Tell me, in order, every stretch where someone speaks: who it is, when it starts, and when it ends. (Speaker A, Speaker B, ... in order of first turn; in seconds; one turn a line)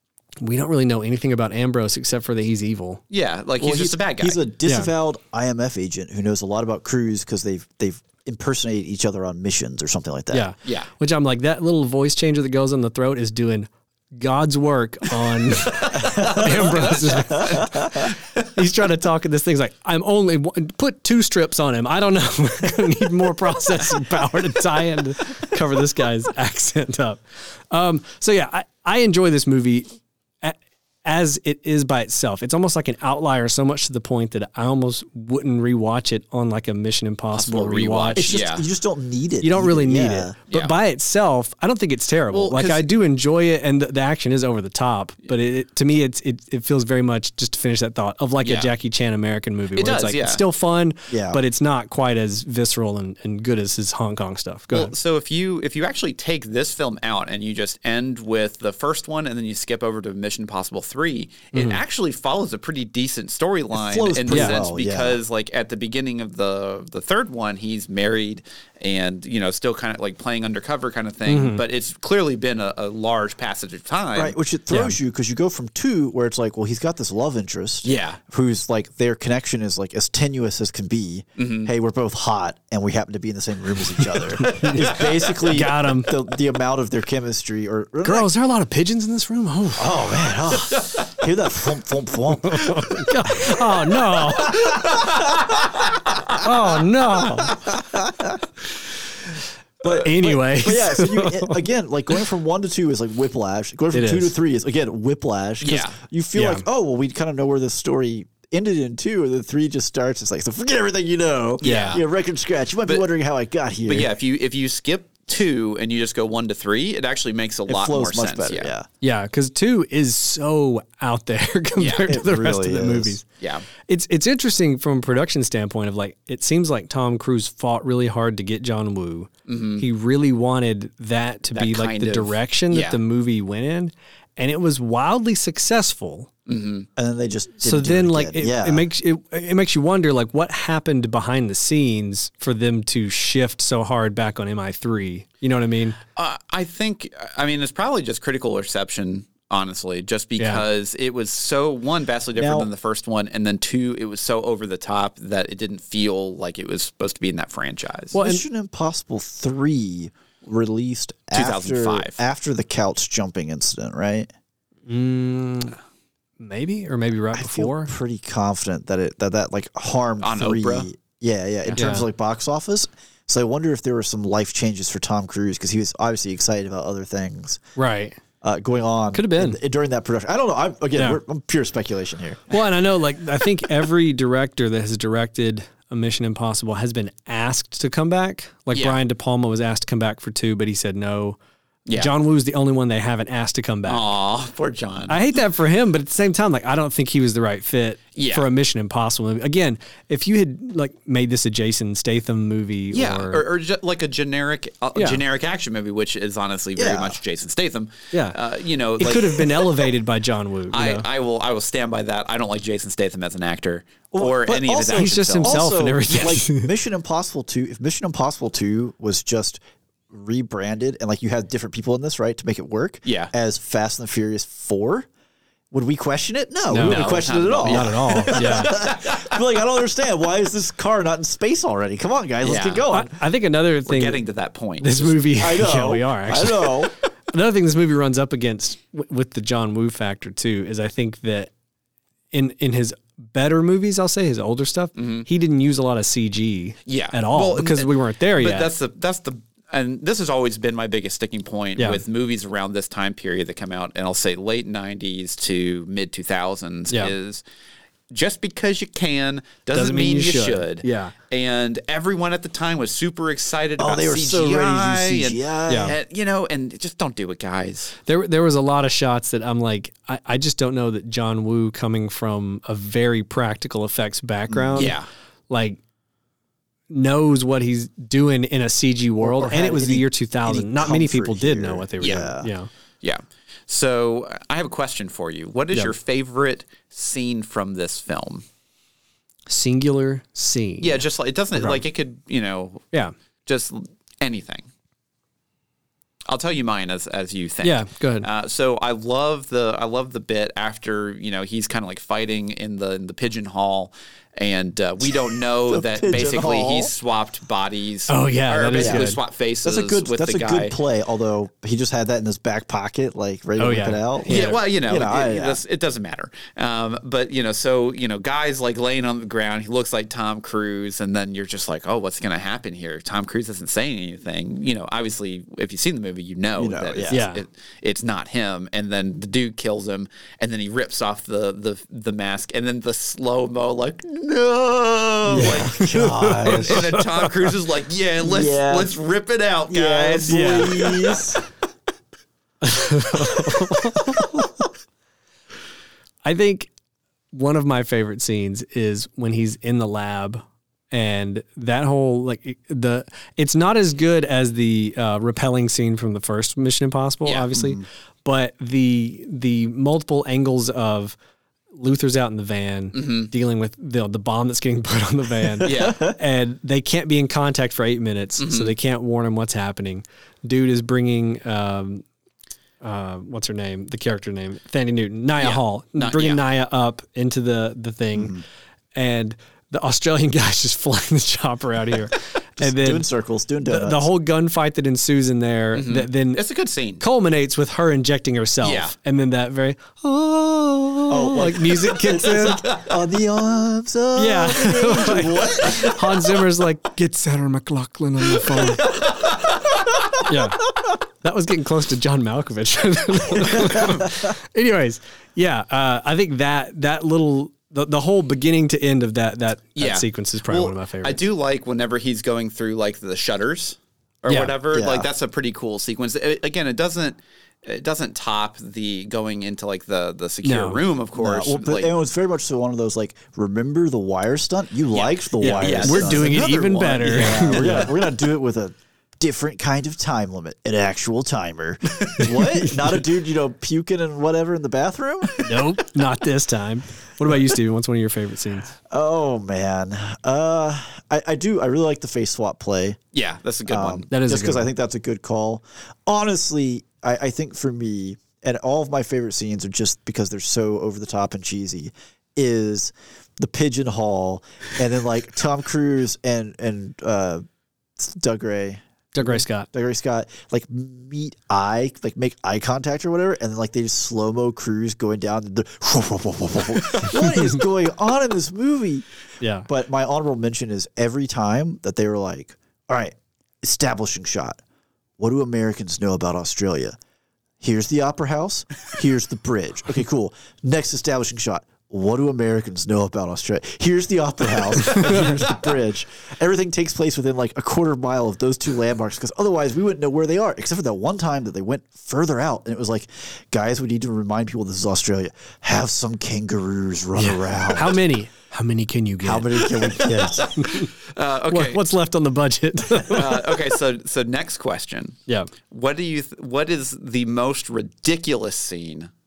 Speaker A: 0.4-3.0
Speaker B: 3.1-4.4
Speaker C: 3.6-10.5
Speaker A: 4.7-4.9
Speaker A: 10.3-38.4
Speaker B: 10.6-10.9
Speaker B: 15.9-18.2
Speaker C: 16.0-16.5
Speaker B: 37.3-38.6
Speaker C: 38.1-40.4
Speaker A: 39.4-54.9
Speaker B: 42.3-42.9
Speaker B: 48.4-48.7
Speaker B: 49.8-50.4
Speaker C: 51.1-51.4
Speaker B: 54.7-74.3
Speaker A: 61.5-61.8
Speaker C: 63.7-65.2
Speaker A: 64.3-64.6
Speaker A: 71.3-71.6
Speaker C: 74.1-88.3
Speaker A: 74.7-75.0
Speaker B: 77.8-78.2
Speaker B: 81.4-81.7
Speaker A: 84.0-86.1
Speaker B: 84.8-85.3
Speaker A: 88.0-90.3
Speaker C: 89.8-93.6
Speaker B: 90.8-91.1
Speaker A: 92.4-94.7
Speaker B: 94.4-96.4
Speaker C: 94.4-95.2
Speaker A: 96.3-97.6
Speaker C: 97.5-98.4
Speaker C: 99.8-114.1
Speaker A: 99.9-101.6
Speaker A: 103.9-104.3
Speaker B: 105.6-106.0
Speaker A: 106.3-106.6
Speaker B: 111.6-112.0
Speaker A: 111.6-112.0
Speaker B: 113.9-118.7
Speaker C: 117.7-118.9
Speaker A: 119.0-123.2
Speaker B: 121.8-122.1
Speaker C: 122.1-123.2
Speaker B: 123.4-123.7
Speaker A: 123.9-136.3
Speaker B: 129.5-129.8
Speaker B: 131.5-133.0
Speaker B: 136.5-136.9
Speaker C: 136.9-138.8
Speaker A: 137.6-146.0
Speaker B: 146.2-158.1
Speaker A: 150.4-150.6
Speaker C: 152.3-152.7
Speaker A: 158.1-158.4
Speaker C: 158.1-164.3
Speaker B: 161.3-162.2
Speaker A: 164.9-165.8
Speaker A: 166.4-167.9
Speaker C: 167.3-177.6
Speaker B: 170.2-170.9
Speaker A: 171.8-172.1
Speaker A: 177.8-178.2
Speaker C: 178.4-182.6
Speaker A: 179.1-179.6
Speaker A: 182.5-191.4
Speaker B: 191.8-192.1
Speaker A: 191.9-194.1
Speaker B: 193.9-195.2
Speaker A: 195.1-203.4
Speaker B: 198.1-198.5
Speaker B: 202.9-209.7
Speaker A: 204.9-205.2
Speaker C: 206.8-207.2
Speaker A: 208.1-208.4
Speaker A: 209.0-211.1
Speaker B: 210.7-216.4
Speaker C: 214.1-225.1
Speaker A: 214.9-216.7
Speaker B: 223.0-223.3
Speaker C: 225.7-233.2
Speaker A: 226.7-228.7
Speaker B: 226.7-229.4
Speaker B: 232.4-232.9
Speaker A: 232.9-234.2
Speaker B: 233.8-235.2
Speaker A: 234.8-241.5
Speaker C: 235.4-236.9
Speaker A: 242.3-248.7
Speaker B: 244.9-245.3
Speaker B: 246.8-257.4
Speaker A: 251.8-252.0
Speaker B: 258.1-267.9
Speaker A: 259.7-261.1
Speaker C: 263.8-266.0
Speaker A: 265.7-265.9
Speaker A: 268.1-275.0
Speaker C: 274.5-274.9
Speaker B: 274.8-275.1
Speaker A: 275.5-275.8
Speaker A: 276.9-282.7
Speaker C: 279.2-282.5
Speaker B: 282.0-282.3
Speaker B: 283.0-288.4
Speaker A: 289.5-291.8
Speaker B: 290.8-292.8
Speaker B: 293.4-294.7
Speaker B: 296.3-310.7
Speaker A: 297.6-298.3
Speaker C: 305.1-306.9
Speaker A: 308.1-309.2
Speaker C: 308.8-309.1
Speaker C: 309.6-315.6
Speaker A: 313.6-314.6
Speaker B: 314.3-341.3
Speaker C: 326.6-327.2
Speaker A: 327.1-327.4
Speaker C: 335.3-336.9
Speaker A: 335.3-337.5
Speaker C: 338.2-338.9
Speaker C: 339.7-341.4
Speaker A: 340.3-340.7
Speaker A: 342.6-344.5
Speaker A: 346.2-346.7
Speaker A: 347.3-361.1
Speaker C: 357.5-357.8
Speaker A: 361.7-372.0
Speaker B: 362.9-363.3
Speaker C: 365.6-366.2
Speaker B: 365.6-366.1
Speaker B: 368.4-368.7
Speaker A: 372.8-378.4
Speaker B: 375.4-376.4
Speaker C: 378.1-378.4
Speaker A: 378.9-383.1
Speaker C: 382.6-384.1
Speaker A: 383.6-386.4
Speaker B: 385.7-387.0
Speaker A: 387.0-392.6
Speaker B: 388.6-388.9
Speaker C: 391.1-396.1
Speaker B: 392.5-392.9
Speaker A: 394.1-398.9
Speaker B: 398.5-399.8
Speaker A: 400.2-400.6
Speaker A: 401.2-411.2
Speaker C: 403.6-404.3
Speaker B: 409.8-421.9
Speaker A: 414.3-414.6
Speaker C: 414.7-415.1
Speaker A: 420.4-420.8
Speaker C: 421.1-435.6
Speaker B: 424.9-427.6
Speaker A: 425.4-427.9
Speaker A: 432.2-432.8
Speaker A: 435.4-438.7
Speaker C: 438.9-443.0
Speaker B: 443.1-444.1
Speaker C: 443.7-457.4
Speaker A: 444.1-444.7
Speaker C: 458.0-469.0
Speaker A: 459.1-459.7
Speaker A: 469.4-469.7
Speaker C: 469.6-474.6
Speaker C: 475.2-477.0
Speaker C: 477.6-498.0
Speaker B: 484.8-485.6
Speaker A: 484.9-485.3
Speaker A: 497.2-500.9
Speaker C: 499.2-500.7
Speaker B: 500.6-501.8
Speaker A: 501.5-503.4
Speaker B: 503.1-505.2
Speaker B: 505.7-509.1